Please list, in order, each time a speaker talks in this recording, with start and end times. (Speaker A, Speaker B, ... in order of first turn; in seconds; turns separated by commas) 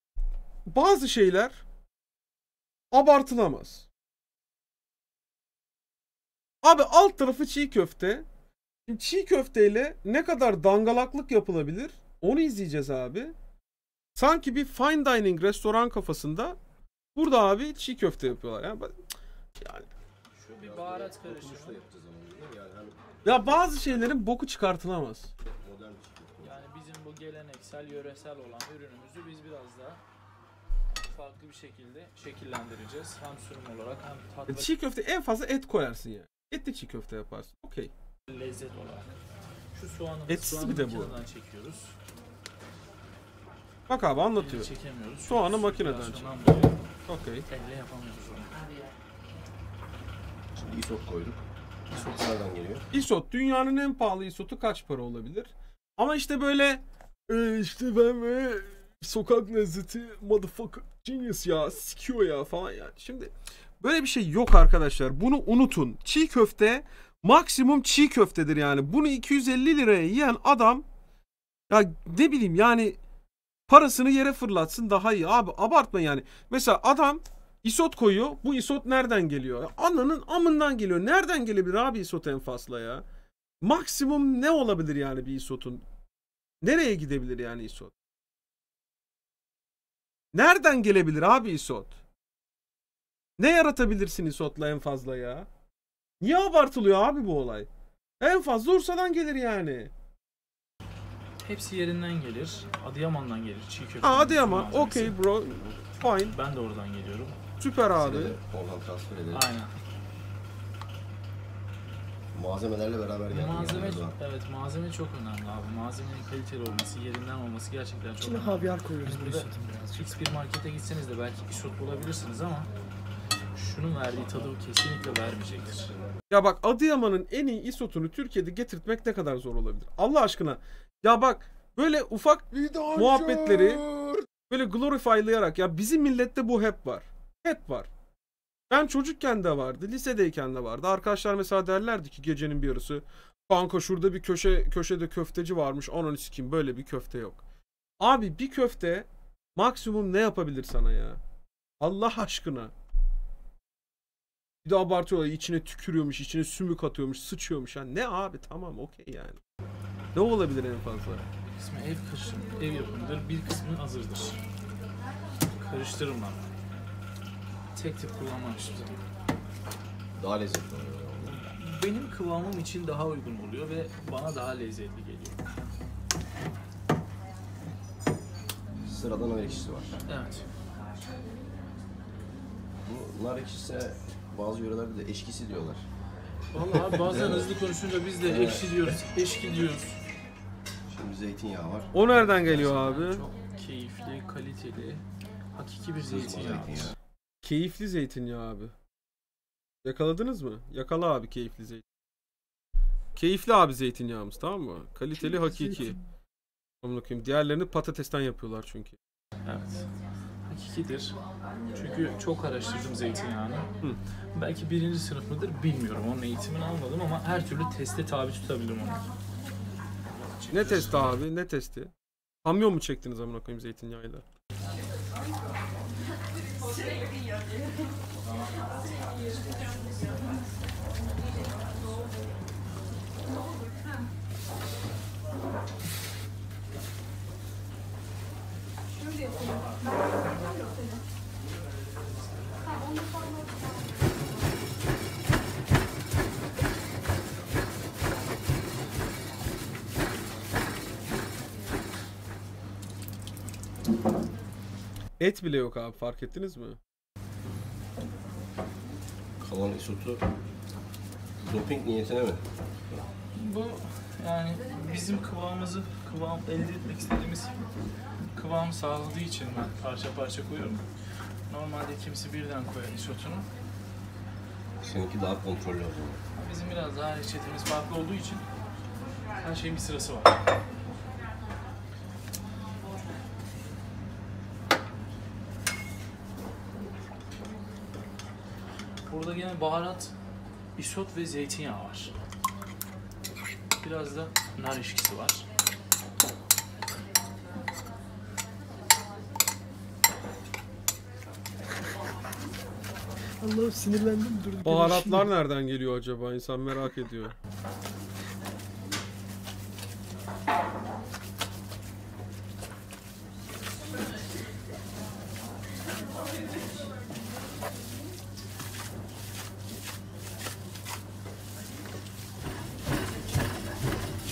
Speaker A: 0.7-1.6, Speaker A: 2.9-3.9, Speaker A: 6.6-8.2, Speaker A: 8.9-13.3, Speaker A: 14.2-16.6, Speaker A: 17.2-18.9, Speaker A: 19.6-19.9, Speaker B: 20.4-23.2, Speaker C: 20.4-21.8, Speaker A: 23.2-25.3, Speaker B: 25.5-26.6, Speaker C: 26.4-30.0, Speaker C: 31.0-34.7, Speaker A: 34.5-37.9, Speaker C: 38.3-39.1, Speaker C: 39.7-42.0, Speaker A: 40.3-41.1, Speaker A: 43.9-47.5, Speaker C: 44.4-46.8, Speaker C: 47.5-48.6, Speaker B: 50.5-52.9, Speaker C: 51.9-52.3, Speaker A: 52.9-70.8, Speaker A: 71.7-73.0, Speaker A: 73.7-83.0, Speaker A: 83.6-85.8, Speaker A: 86.6-87.9, Speaker A: 90.3-92.0, Speaker A: 93.4-95.5, Speaker A: 96.2-97.7, Speaker A: 98.2-99.9, Speaker C: 101.4-105.2, Speaker A: 104.0-106.3, Speaker C: 106.3-107.4, Speaker A: 107.6-108.4, Speaker B: 108.0-109.5, Speaker C: 109.3-109.7, Speaker B: 112.3-114.2, Speaker C: 113.3-122.7, Speaker D: 118.2-120.2, Speaker C: 123.6-125.9, Speaker A: 126.3-133.8, Speaker B: 132.7-133.0, Speaker A: 134.5-137.9, Speaker A: 138.7-147.4, Speaker A: 148.0-151.2, Speaker A: 151.8-152.7, Speaker A: 154.7-159.4, Speaker A: 160.2-161.2, Speaker C: 161.5-164.4, Speaker C: 165.6-166.5, Speaker C: 167.8-169.0, Speaker B: 170.2-171.4, Speaker C: 171.3-175.5, Speaker B: 178.8-180.0, Speaker C: 180.1-180.5, Speaker B: 182.8-185.9, Speaker C: 186.5-190.0, Speaker B: 186.8-187.5, Speaker B: 188.2-188.7, Speaker B: 190.9-191.9, Speaker A: 191.9-193.2, Speaker C: 192.1-196.9, Speaker B: 196.1-197.0, Speaker A: 197.4-198.7, Speaker A: 199.8-201.8, Speaker A: 203.2-206.0, Speaker D: 205.2-206.0, Speaker A: 206.8-209.0, Speaker C: 209.4-209.9, Speaker C: 210.5-211.2, Speaker C: 211.7-213.7, Speaker C: 214.3-219.1, Speaker C: 220.1-221.2, Speaker A: 220.5-221.9, Speaker A: 222.4-224.2, Speaker A: 255.2-256.8, Speaker B: 259.4-260.2, Speaker B: 261.4-262.4, Speaker C: 263.3-267.6, Speaker C: 268.3-270.9, Speaker C: 271.5-273.5, Speaker B: 274.8-276.2, Speaker C: 276.4-278.5, Speaker C: 279.4-280.4, Speaker C: 289.1-290.1, Speaker C: 290.8-292.1, Speaker C: 293.8-295.5, Speaker D: 303.4-305.3, Speaker A: 304.6-307.3